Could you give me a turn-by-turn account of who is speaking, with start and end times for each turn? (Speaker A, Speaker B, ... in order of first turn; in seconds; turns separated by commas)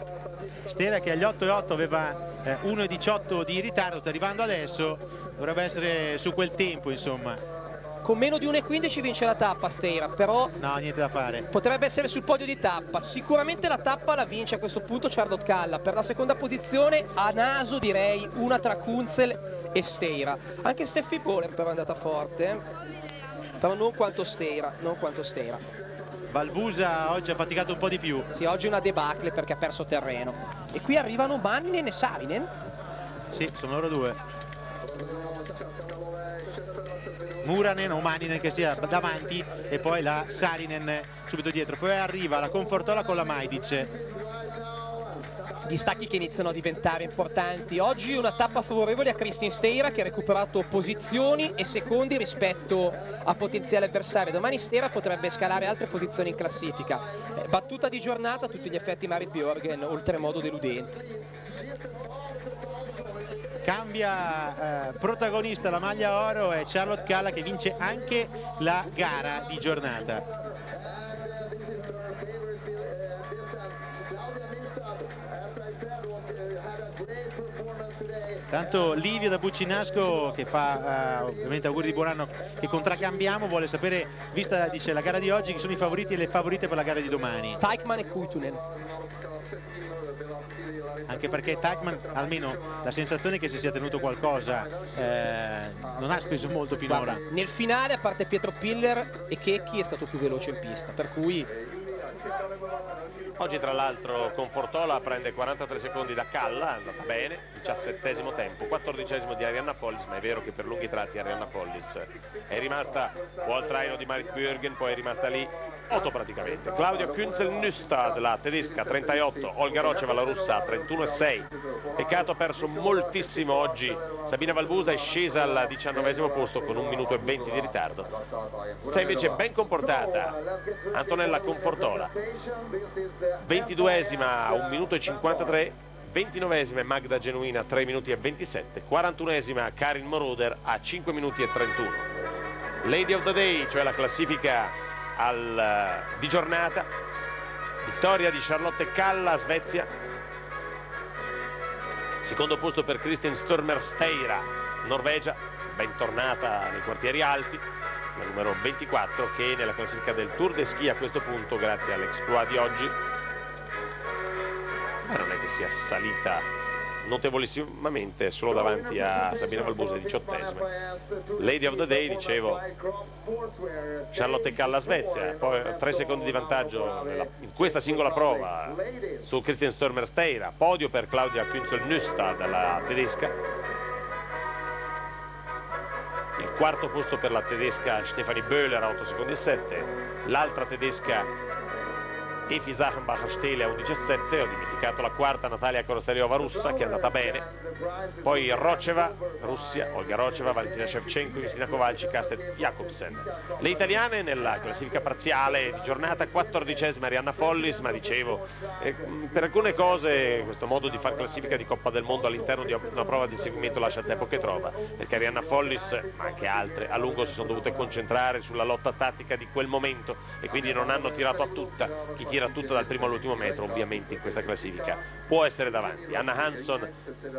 Speaker A: 0.7-7.4, Speaker B: 8.0-10.6, Speaker A: 10.6-11.5, Speaker B: 11.5-22.6, Speaker B: 23.6-25.6, Speaker A: 26.3-28.3, Speaker B: 28.3-32.5, Speaker A: 33.3-34.2, Speaker A: 37.4-43.9, Speaker B: 45.7-61.1, Speaker A: 63.6-70.3, Speaker A: 78.5-87.6, Speaker B: 87.6-88.6, Speaker A: 91.1-97.2, Speaker B: 96.9-101.5, Speaker C: 103.4-128.1, Speaker C: 128.8-130.4, Speaker C: 130.9-132.1, Speaker C: 133.4-142.1, Speaker C: 142.8-146.9, Speaker C: 147.8-149.9, Speaker C: 152.2-157.6, Speaker C: 158.2-162.9, Speaker C: 165.1-166.4, Speaker C: 167.0-170.7, Speaker C: 171.4-172.7, Speaker C: 174.1-183.3, Speaker C: 186.4-191.3, Speaker C: 192.5-197.5, Speaker C: 198.2-226.9